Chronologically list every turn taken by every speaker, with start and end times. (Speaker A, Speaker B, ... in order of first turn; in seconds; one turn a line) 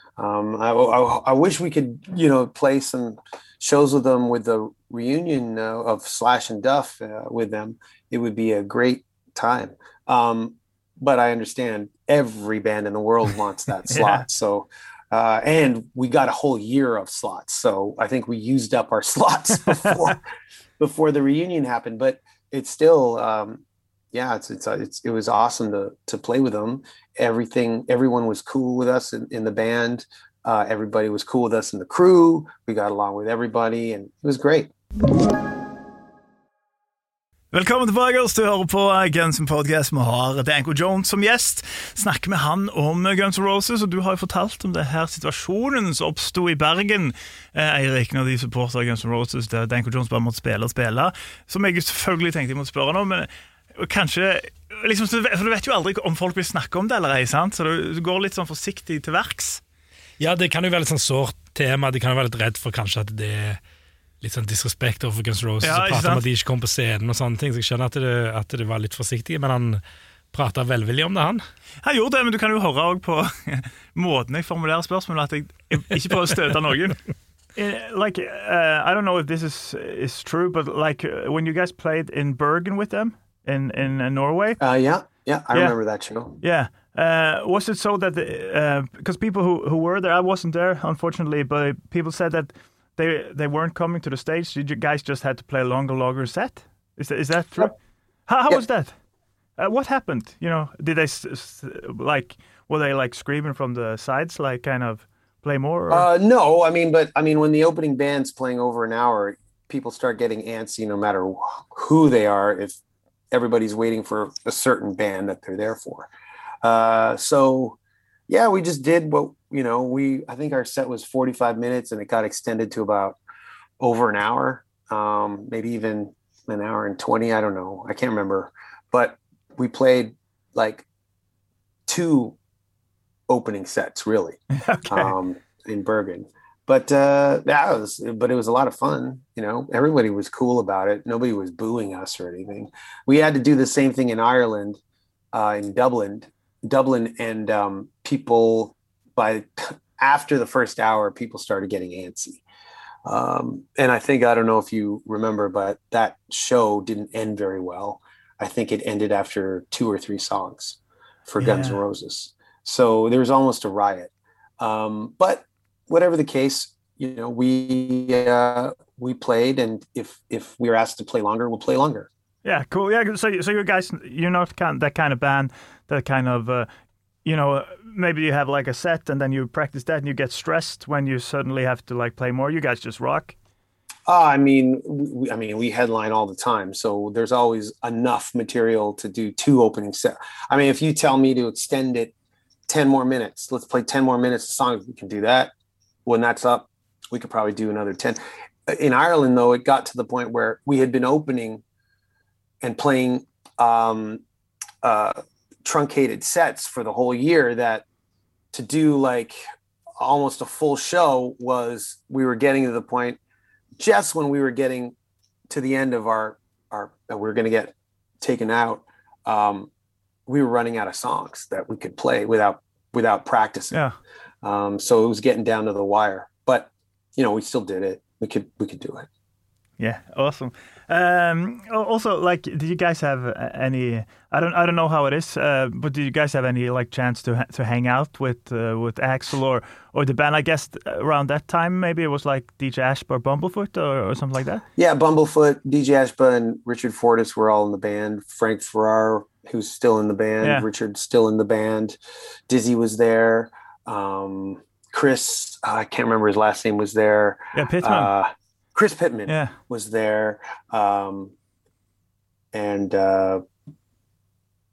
Speaker A: 0.2-20.2
Speaker B: 13.9-14.2
Speaker A: 20.8-34.7
Speaker B: 37.5-59.6
Speaker C: 60.2-63.6
Speaker C: 64.2-69.8
Speaker B: 65.6-66.2
Speaker C: 70.3-71.4
Speaker B: 71.8-77.0
Speaker B: 77.5-84.6
Speaker A: 84.6-86.4
Speaker B: 86.4-97.7
Speaker B: 98.3-98.9
Speaker B: 99.6-106.0
Speaker A: 105.9-112.8
Speaker A: 113.3-116.1
Speaker A: 116.6-117.8
Speaker A: 118.3-123.2
Speaker A: 123.8-130.8
Speaker A: 131.9-132.3
Speaker A: 133.3-144.8
Speaker B: 134.6-135.1
Speaker A: 145.3-152.4
Speaker A: 153.1-172.1
Speaker B: 161.4-161.8
Speaker B: 172.4-176.7
Speaker B: 177.2-183.3
Speaker A: 184.1-192.1
Speaker A: 192.7-195.5
Speaker A: 196.1-201.6
Speaker A: 202.6-204.2
Speaker A: 204.8-207.8
Speaker A: 208.5-209.4
Speaker A: 210.0-213.2
Speaker A: 213.8-214.9
Speaker A: 215.5-219.7
Speaker A: 220.3-223.8
Speaker A: 224.4-229.1
Speaker B: 229.8-244.6
Speaker A: 244.8-261.3
Speaker B: 257.5-258.1
Speaker B: 259.3-259.5
Speaker A: 262.5-263.4